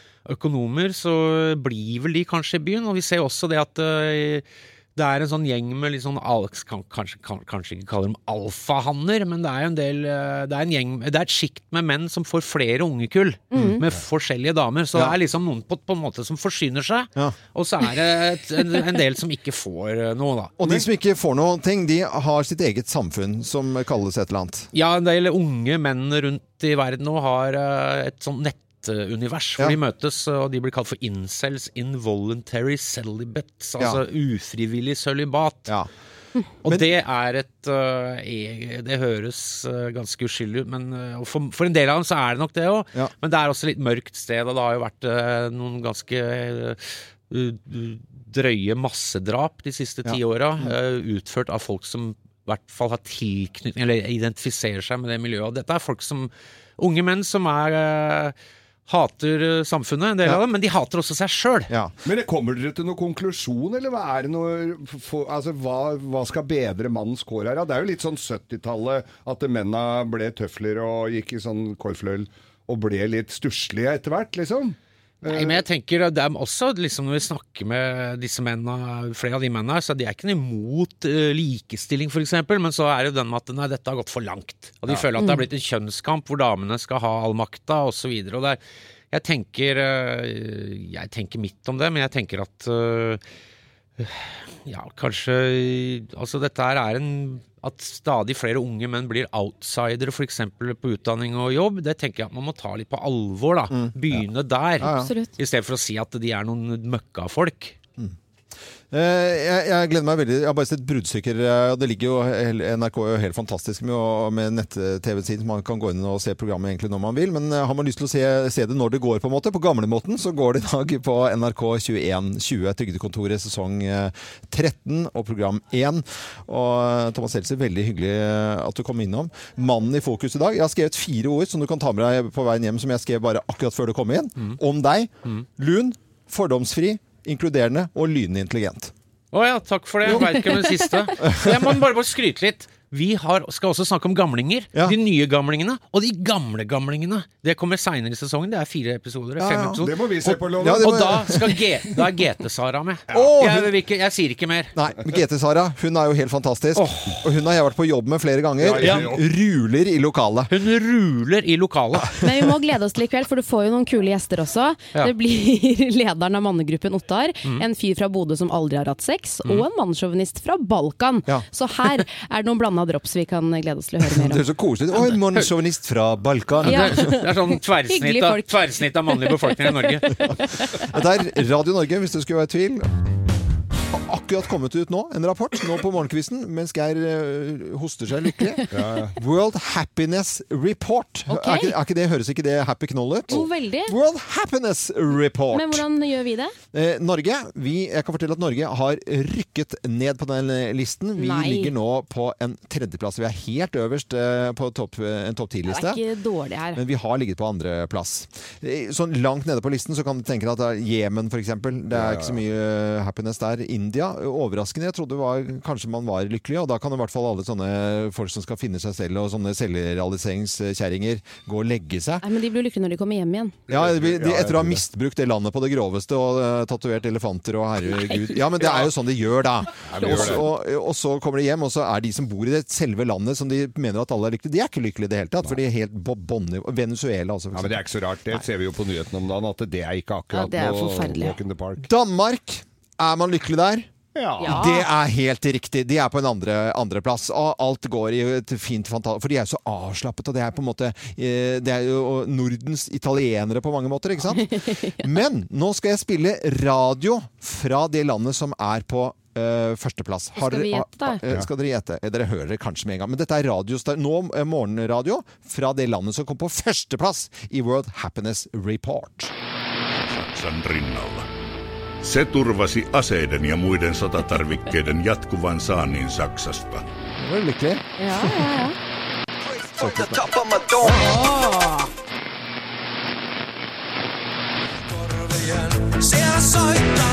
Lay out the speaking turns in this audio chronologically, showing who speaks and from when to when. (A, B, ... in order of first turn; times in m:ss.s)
0:00.2-0:04.4 A
0:05.0-0:20.5 A
0:13.5-0:13.8 B
0:13.6-0:13.8 C
0:20.6-0:24.7 B
0:24.7-0:35.8 A
0:36.6-0:58.3 A
0:50.0-0:50.7 B
0:58.9-1:01.7 A
1:02.0-1:15.6 D
1:15.2-1:28.6 A
1:29.1-1:33.2 A
1:34.0-1:47.8 A
1:43.7-1:44.2 B
1:44.8-1:45.1 B
1:44.9-1:45.3 C
1:48.9-2:18.9 B
2:19.3-2:30.0 A
2:21.2-2:21.7 B
2:29.4-2:31.6 B
2:29.8-2:31.2 D
2:30.6-2:34.7 A
2:33.1-2:33.4 D
2:33.1-2:33.7 B
2:34.7-2:40.5 B
2:36.8-2:37.2 A
2:38.6-2:39.2 D
2:40.5-2:42.1 A
2:42.0-2:42.3 B
2:42.2-2:54.4 C
2:54.0-2:57.0 B
2:56.6-3:00.3 A
2:56.6-2:58.5 C
2:59.0-2:59.8 C
3:00.7-3:02.9 B
3:03.9-3:15.8 B
3:08.7-3:09.2 D
3:11.3-3:11.7 C
3:13.3-3:13.9 C
3:15.5-3:16.5 C
3:16.7-3:26.0 B
3:21.2-3:21.7 C
3:25.7-3:26.8 C
3:26.7-3:42.2 B
3:31.9-3:32.4 D
3:42.2-3:43.6 C
3:43.7-3:44.8 D
3:43.7-3:57.8 B
3:49.9-3:50.5 D
3:57.5-4:01.8 D
4:00.3-4:01.3 C
4:01.8-4:03.9 B
4:04.1-4:04.6 D
4:04.4-4:04.8 C
4:04.4-4:29.3 B
4:14.4-4:15.0 C
4:20.4-4:21.2 C
4:30.0-4:31.3 E
4:32.0-4:36.8 E
4:37.2-4:38.3 B
4:38.0-4:38.7 C
4:39.8-4:41.2 B
4:41.0-4:41.8 C